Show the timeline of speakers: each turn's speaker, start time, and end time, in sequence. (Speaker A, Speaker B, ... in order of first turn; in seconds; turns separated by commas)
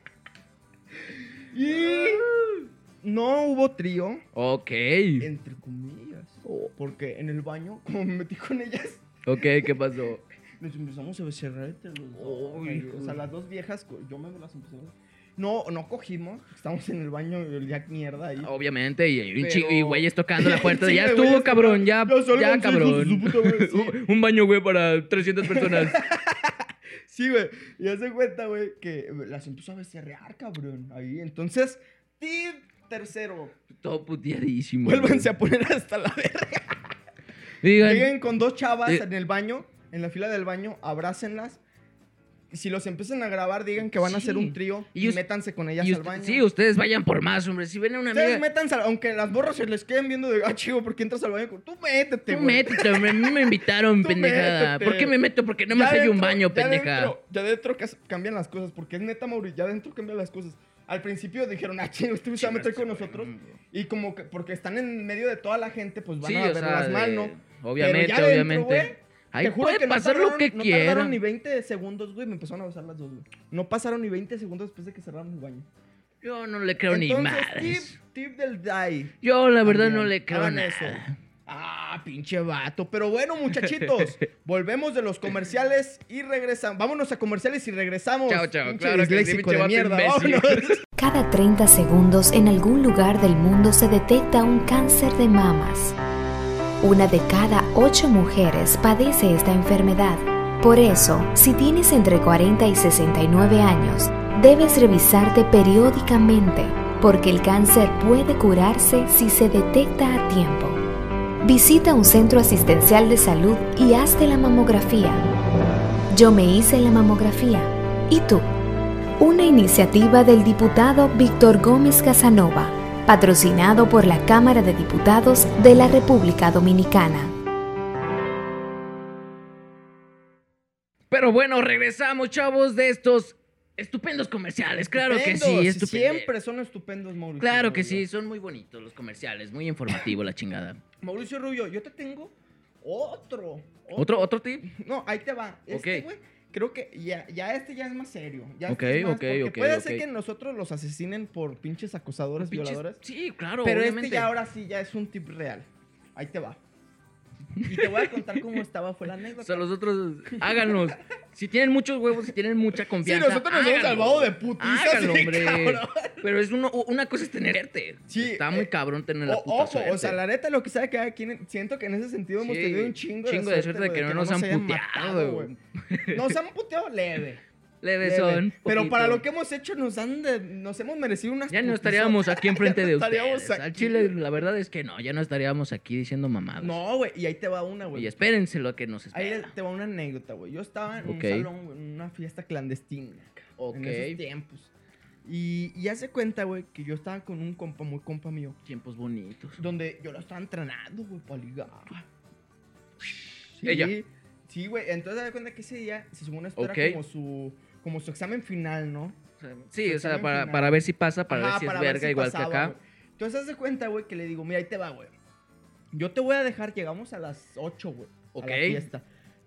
Speaker A: 1.0-2.3, Speaker B: 1.7-2.6, Speaker A: 3.0-4.2, Speaker B: 4.3-5.3, Speaker A: 5.2-9.7, Speaker B: 6.5-6.7, Speaker B: 9.2-10.2, Speaker A: 10.6-18.5, Speaker B: 12.2-13.2, Speaker B: 18.4-26.0, Speaker A: 19.4-24.0, Speaker A: 25.4-33.5, Speaker B: 33.7-35.3, Speaker A: 34.8-36.8, Speaker B: 37.6-38.1, Speaker A: 37.8-41.6, Speaker A: 42.5-46.4, Speaker B: 44.0-45.2, Speaker B: 45.8-48.4, Speaker A: 48.1-55.1, Speaker B: 52.3-57.1, Speaker A: 55.7-75.7, Speaker B: 62.4-63.6, Speaker B: 66.2-71.2, Speaker B: 76.2-78.0, Speaker A: 76.9-90.8, Speaker B: 79.2-81.2, Speaker B: 83.6-84.1, Speaker B: 88.3-90.8, Speaker C: 91.0-96.0, Speaker C: 96.8-110.8, Speaker C: 111.4-115.2, Speaker C: 116.1-118.5, Speaker C: 119.2-127.3, Speaker B: 131.1-136.3, Speaker A: 134.9-138.1, Speaker B: 137.4-140.8, Speaker A: 141.0-153.0, Speaker B: 143.9-144.7, Speaker B: 145.7-146.1, Speaker B: 148.7-150.0, Speaker B: 152.4-154.3, Speaker A: 153.6-156.6, Speaker B: 157.6-158.4, Speaker A: 157.7-159.7, Speaker B: 159.4-170.2, Speaker A: 160.4-160.8, Speaker A: 163.0-166.2, Speaker A: 168.1-168.7, Speaker A: 169.2-175.5, Speaker B: 172.4-176.3, Speaker A: 176.1-177.4, Speaker B: 177.8-179.2, Speaker A: 178.0-184.1, Speaker B: 181.5-186.8, Speaker A: 186.6-188.2, Speaker B: 187.9-189.5, Speaker A: 189.1-194.7, Speaker B: 191.0-191.5, Speaker B: 193.6-194.2, Speaker A: 195.2-198.6, Speaker B: 198.7-199.6, Speaker A: 199.6-202.1, Speaker A: 203.0-209.2, Speaker B: 203.6-203.9, Speaker B: 206.6-207.0, Speaker B: 209.4-212.7, Speaker A: 209.8-215.1, Speaker A: 215.9-219.0, Speaker B: 218.3-218.8